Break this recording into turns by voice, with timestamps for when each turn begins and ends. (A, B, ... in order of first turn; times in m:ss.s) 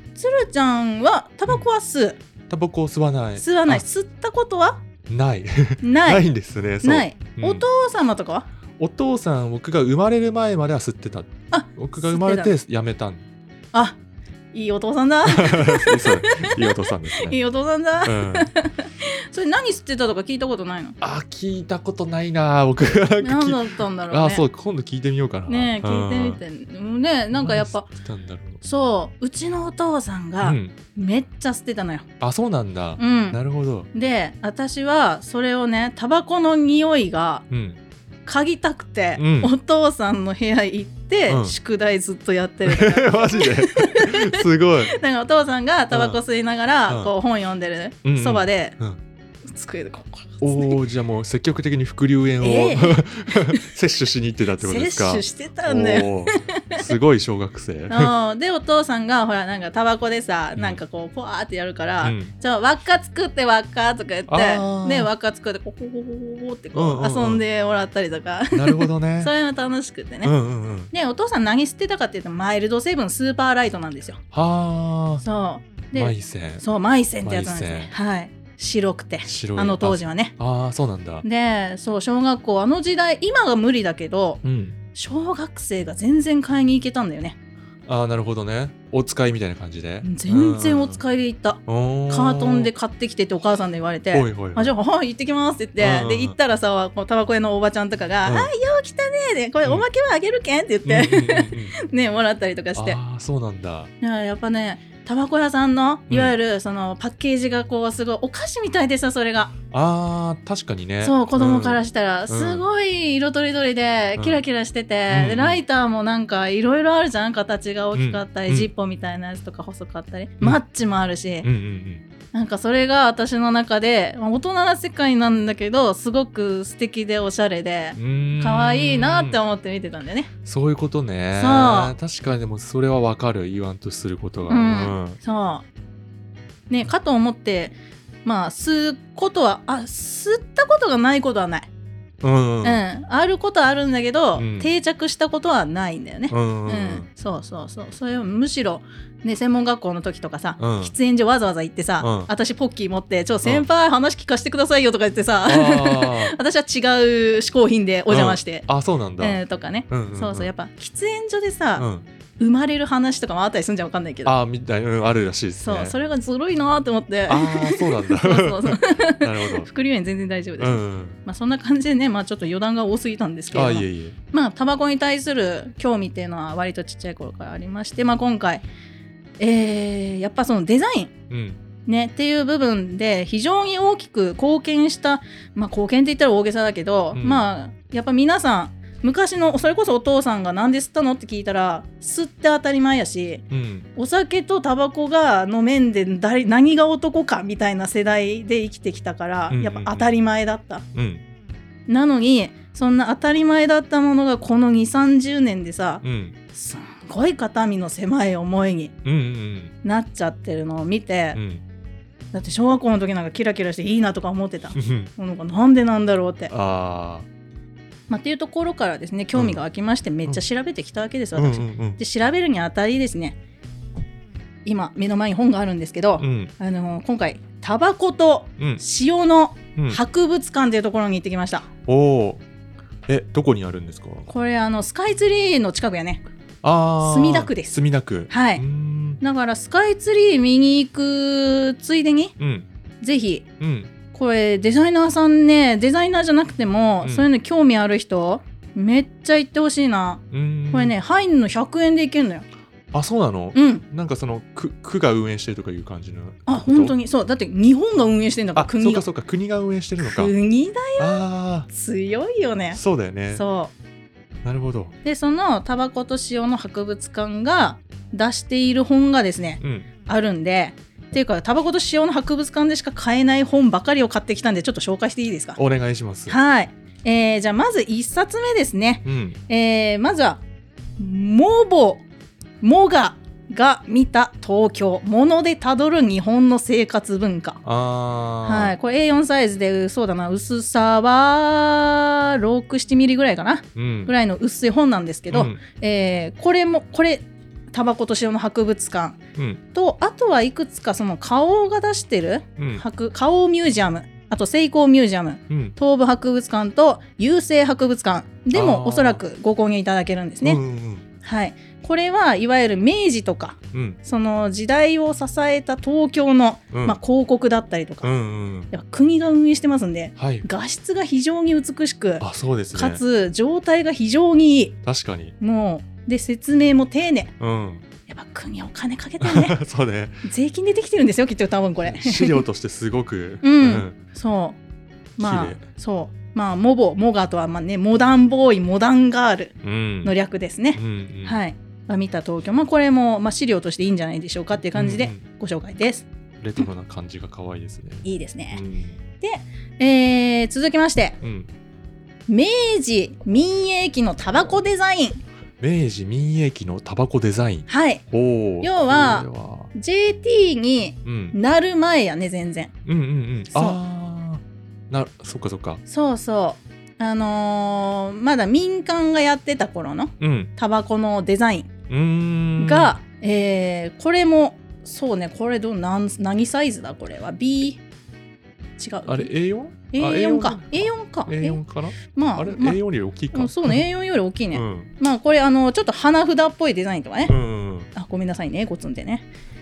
0:00.2-0:02.2 A
0:02.5-0:03.8 B
0:03.4-0:04.8 A
0:05.1-0:07.7 B
0:05.8-0:06.3 A
0:06.8-0:08.5 A
0:08.8-0:13.3 B
0:11.5-0:12.6 A
0:13.7-0:14.0 A
0:14.5-0:21.0 A
0:15.2-0:17.4 B
0:18.0-0:18.5 B
0:21.0-0:26.4 B
0:23.2-0:24.4 A
0:25.5-0:27.9 A
0:27.3-0:28.6 B
0:28.6-0:32.1 A
0:30.4-0:30.8 B
0:32.2-0:33.9 B
0:33.0-0:33.4 A
0:33.9-0:37.5 A
0:37.5-0:37.8 B
0:38.3-0:48.8 A
0:39.2-0:39.5 B
0:41.3-0:41.6 B
0:42.6-0:45.0 B
0:45.9-0:46.2 B
0:46.9-0:47.1 B
0:48.0-0:49.0 B
0:49.5-0:50.8 A
0:50.4-0:58.1 B
0:52.4-0:53.7 A
0:54.6-0:56.8 A
0:57.9-1:10.3 A
1:00.6-1:00.8 B
1:02.0-1:02.3 B
1:04.3-1:05.1 B
1:06.7-1:07.4 B
1:08.5-1:09.3 B
1:10.2-1:10.9 B
1:10.9-1:14.2 A
1:14.3-1:15.2 B
1:15.2-1:20.4 A
1:15.9-1:16.6 B
1:17.2-1:17.9 B
1:19.2-1:21.2 B
1:21.2-1:24.4 A
1:24.4-1:24.8 B
1:24.9-1:27.4 A
1:27.9-1:31.0 B
1:30.0-1:43.0 A
1:31.7-1:32.7 B
1:34.1-1:34.7 B
1:35.8-1:36.4 B
1:38.2-1:38.5 B
1:40.8-1:41.8 B
1:42.8-1:43.9 B
1:44.0-1:49.6 A
1:46.1-1:46.4 B
1:49.7-1:52.7 B
1:51.0-2:01.5 A
1:55.1-1:55.6 B
1:58.0-1:58.7 B
2:01.4-2:02.0 B
2:02.3-2:10.3 A
2:08.0-2:09.4 B
2:10.4-2:15.2 B
2:11.3-2:11.9 A
2:14.5-2:15.6 A
2:16.7-2:21.7 A
2:22.2-2:22.8 B
2:22.6-2:38.7 A
2:24.4-2:24.7 B
2:26.3-2:27.1 B
2:30.6-2:30.9 B
2:32.0-2:32.3 B
2:35.4-2:36.4 B
2:38.1-2:40.5 B
2:39.2-2:41.9 A
2:41.8-2:42.1 B
2:42.4-2:44.3 A
2:44.2-2:46.0 B
2:45.6-2:58.7 A
2:47.3-2:49.7 B
2:50.6-2:51.2 B
2:53.5-2:54.2 B
2:59.4-3:01.1 A
3:01.3-3:01.6 B
3:01.9-3:20.8 A
3:07.1-3:07.5 B
3:13.5-3:13.9 B
3:19.5-3:20.1 B
3:21.0-3:21.2 B
3:21.9-3:26.0 A
3:26.0-3:26.4 B
3:26.5-3:29.0 A
3:29.0-3:29.8 B
3:29.8-3:31.4 A
3:31.3-3:31.6 B
3:32.3-3:36.5 A
3:34.8-3:35.1 B
3:36.5-3:37.3 B
3:38.1-3:43.4 A
3:39.3-3:39.6 B
3:41.4-3:42.0 B
3:44.6-3:51.7 A
3:46.2-3:46.5 B
3:51.9-3:52.4 B
3:53.1-3:54.3 B
3:54.3-3:56.2 A
3:56.6-3:59.2 B
3:57.0-3:57.8 A
3:58.3-3:58.6 A
3:59.2-4:02.3 A
4:02.4-4:02.7 B
4:03.0-4:03.5 A
4:03.6-4:03.9 B
4:04.1-4:12.4 A
4:07.0-4:07.3 B
4:10.3-4:11.0 B
4:12.9-4:17.0 B
4:13.5-4:13.8 A
4:16.5-4:19.1 A
4:18.6-4:20.3 B
4:20.0-4:22.8 A
4:21.0-4:21.7 B
4:22.8-4:23.4 B
4:23.3-4:23.7 A
4:24.4-4:25.0 B
4:25.0-4:35.6 A
4:29.6-4:29.9 B
4:35.6-4:36.4 B
4:36.3-4:40.4 A
4:39.0-4:39.4 B
4:41.0-4:42.0 A
4:42.6-4:47.6 A
4:47.6-4:48.8 B
4:48.4-4:59.2 A
4:53.8-4:54.1 B
4:55.3-4:55.6 B
4:59.4-4:59.6 B
4:59.7-5:10.6 A
5:02.6-5:02.8 B
5:05.5-5:05.8 B
5:08.5-5:09.2 B
5:10.4-5:11.1 B
5:11.2-5:18.1 A
5:13.7-5:14.0 B
5:16.7-5:17.0 B
5:18.0-5:18.7 B
5:18.7-5:24.8 A
5:20.2-5:20.5 B
5:22.2-5:23.0 B
5:24.8-5:25.4 B
5:25.4-5:27.3 A
5:27.4-5:27.8 B
5:28.1-5:29.6 A
5:29.2-5:30.2 B
5:30.2-5:32.4 A
5:31.8-5:34.0 B
5:33.4-5:34.6 A
5:35.2-5:46.1 A
5:35.2-5:35.6 B
5:39.6-5:40.1 B
5:40.8-5:41.4 B
5:44.7-5:45.2 B
5:46.4-5:49.0 B
5:48.0-5:48.6 A
5:49.2-5:51.2 A
5:51.2-5:51.5 B
5:52.3-5:55.2 A
5:55.6-5:59.7 B
5:57.7-5:58.0 A
5:58.6-6:02.7 A
6:01.0-6:01.4 B
6:02.8-6:05.8 B
6:03.5-6:03.8 A
6:05.9-6:11.7 A
6:10.2-6:10.5 B
6:11.9-6:12.9 B
6:12.6-6:17.8 A
6:18.8-6:19.3 A
6:19.1-6:23.8 B
6:19.9-6:22.8 A
6:23.3-6:27.4 A
6:24.5-6:24.9 B
6:27.3-6:27.9 B
6:27.9-6:29.3 A